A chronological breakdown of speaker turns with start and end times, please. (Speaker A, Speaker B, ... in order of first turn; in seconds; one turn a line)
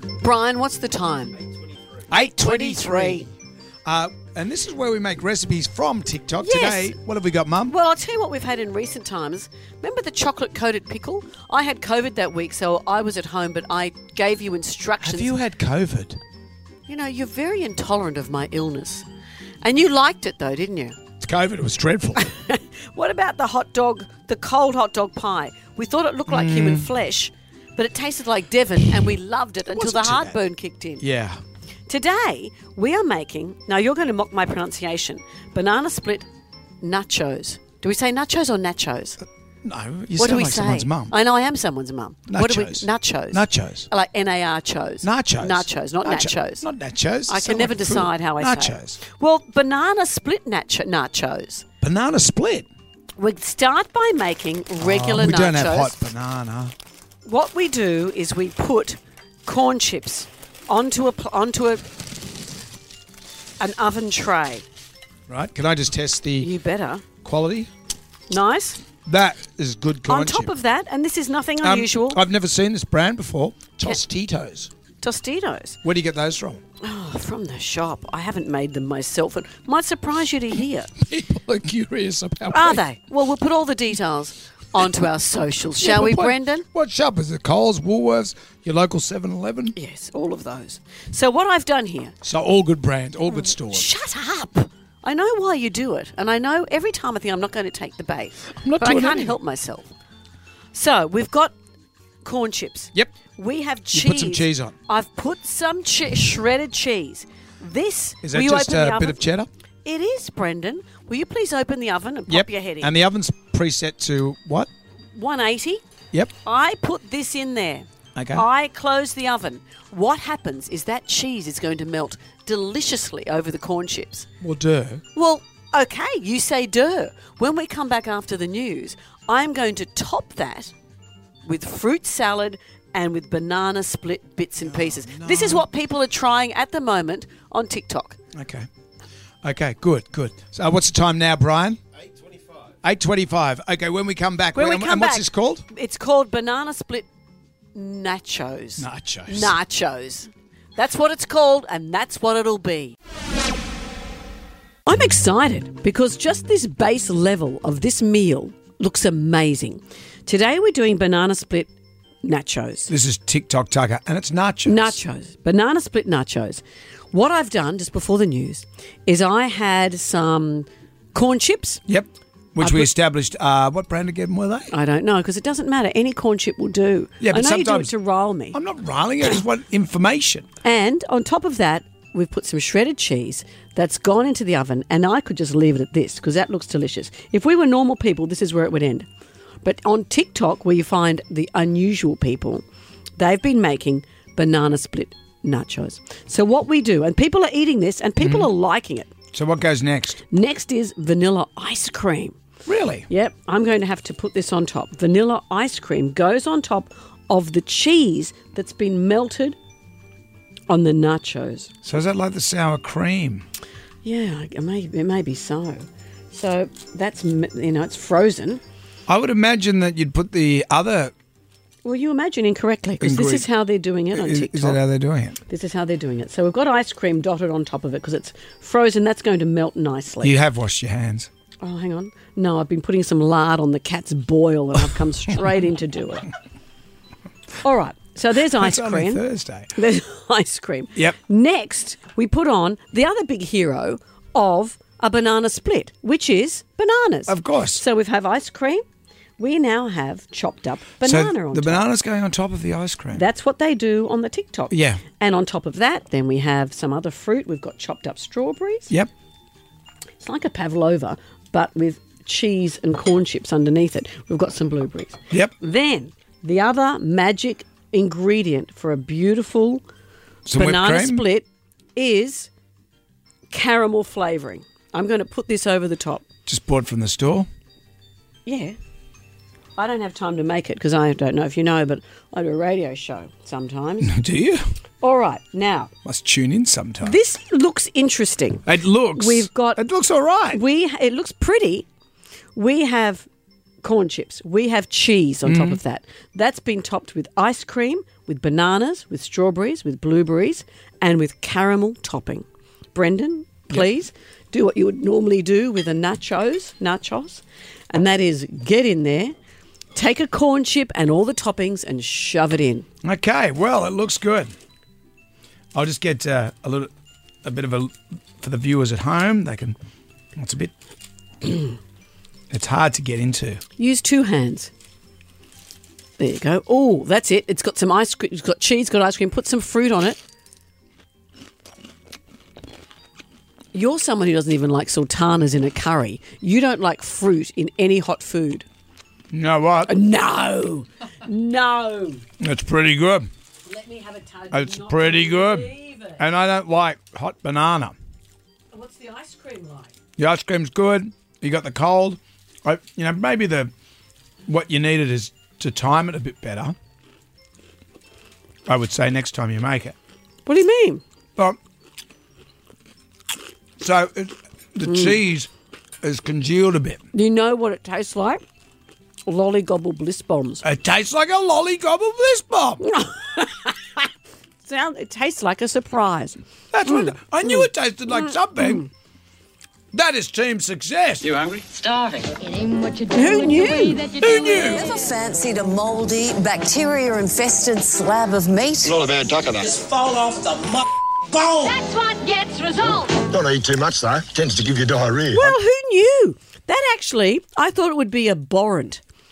Speaker A: 0.2-1.4
Speaker B: 2.1-3.3
Speaker A: 2.1-3.3
Speaker B: 3.9-7.8
Speaker A: 6.4-6.9
Speaker A: 7.7-15.4
Speaker B: 15.0-16.2
Speaker A: 16.9-19.1
Speaker A: 19.6-21.0
Speaker B: 21.2-22.3
Speaker A: 22.2-31.1
Speaker B: 26.3-26.9
Speaker B: 29.7-30.4
Speaker B: 31.0-31.4
Speaker A: 31.9-36.3
Speaker A: 36.8-39.2
Speaker B: 39.6-41.1
Speaker A: 40.2-46.7
Speaker B: 42.3-43.9
Speaker B: 45.0-49.0
Speaker A: 47.3-51.6
Speaker B: 51.8-52.7
Speaker A: 53.2-56.1
Speaker B: 54.8-56.7
Speaker A: 57.2-61.8
Speaker A: 63.6-64.6
Speaker B: 65.3-66.5
Speaker A: 66.4-67.0
Speaker B: 67.2-67.7
Speaker A: 68.3-68.8
Speaker B: 69.1-70.5
Speaker A: 70.1-72.2
Speaker B: 71.6-74.7
Speaker A: 75.0-75.8
Speaker B: 75.8-76.6
Speaker A: 76.8-80.9
Speaker B: 81.0-82.8
Speaker A: 82.5-86.7
Speaker B: 85.8-89.8
Speaker A: 89.7-92.1
Speaker B: 92.2-93.9
Speaker A: 93.3-99.9
Speaker B: 98.5-99.4
Speaker A: 100.7-101.5
Speaker A: 102.2-109.3
Speaker B: 103.9-104.8
Speaker B: 108.2-109.5
Speaker A: 109.8-112.9
Speaker B: 112.3-114.7
Speaker A: 115.1-115.8
Speaker A: 116.4-124.3
Speaker B: 118.2-118.5
Speaker B: 124.4-125.0
Speaker A: 125.1-130.7
Speaker A: 131.4-138.2
Speaker B: 134.6-135.7
Speaker B: 138.3-138.7
Speaker B: 139.4-141.8
Speaker B: 142.8-145.7
Speaker A: 144.5-147.1
Speaker A: 147.8-152.9
Speaker B: 148.8-149.6
Speaker A: 154.9-161.7
Speaker A: 162.2-162.9
Speaker B: 162.9-165.0
Speaker A: 164.7-171.8
Speaker B: 171.9-174.7
Speaker A: 172.6-172.9
Speaker A: 174.7-178.6
Speaker B: 177.2-177.9
Speaker B: 178.5-180.4
Speaker A: 180.6-189.1
Speaker A: 189.6-192.6
Speaker A: 193.2-199.1
Speaker B: 198.2-198.5
Speaker B: 199.3-200.2
Speaker A: 200.3-202.4
Speaker B: 202.7-203.1
Speaker A: 203.1-209.6
Speaker A: 210.7-211.7
Speaker B: 211.8-213.4
Speaker A: 214.0-218.6
Speaker B: 219.1-221.1
Speaker A: 221.8-224.8
Speaker B: 223.0-223.5
Speaker B: 224.1-225.4
Speaker A: 225.5-230.3
Speaker B: 230.2-231.3
Speaker A: 231.6-236.3
Speaker A: 237.6-239.2
Speaker B: 238.5-239.7
Speaker A: 239.8-248.8
Speaker B: 247.3-247.8
Speaker A: 249.4-251.8
Speaker B: 251.0-253.2
Speaker A: 253.1-258.9
Speaker B: 254.7-255.0
Speaker A: 260.2-269.8
Speaker B: 270.4-271.2
Speaker A: 270.5-272.5
Speaker A: 273.5-276.2
Speaker B: 276.4-277.5
Speaker A: 278.4-278.8
Speaker A: 279.8-284.1
Speaker B: 284.0-284.6
Speaker A: 285.0-285.9
Speaker B: 286.0-287.2
Speaker A: 287.0-289.8
Speaker B: 288.6-290.6
Speaker A: 290.5-291.9
Speaker A: 292.5-293.3
Speaker A: 293.8-309.3
Speaker B: 295.4-295.8
Speaker A: 309.9-312.9
Speaker B: 313.0-314.5
Speaker B: 315.7-316.9
Speaker B: 317.4-319.8
Speaker B: 320.4-320.7
Speaker B: 322.5-323.6
Speaker A: 323.8-324.7
Speaker A: 326.2-330.2
Speaker A: 333.7-338.6
Speaker B: 339.3-339.9
Speaker A: 339.9-342.2
Speaker B: 342.4-343.3
Speaker A: 343.6-346.2
Speaker B: 344.5-347.9
Speaker A: 348.7-349.9
Speaker B: 350.2-353.7
Speaker B: 354.4-356.8
Speaker B: 358.7-359.9
Speaker A: 360.4-361.0
Speaker B: 363.8-365.5
Speaker A: 364.8-365.2
Speaker B: 366.0-367.0
Speaker A: 367.1-368.4
Speaker A: 369.2-370.6
Speaker B: 370.6-372.8
Speaker A: 372.8-374.1
Speaker A: 374.6-378.9
Speaker B: 376.7-378.9
Speaker B: 379.9-381.3
Speaker C: 381.3-382.3
Speaker D: 382.3-384.8
Speaker A: 383.1-384.0
Speaker B: 384.2-384.8
Speaker E: 384.6-389.0
Speaker F: 388.8-389.8
Speaker C: 389.6-391.7
Speaker D: 391.6-393.1
Speaker F: 393.3-395.6
Speaker A: 395.3-399.0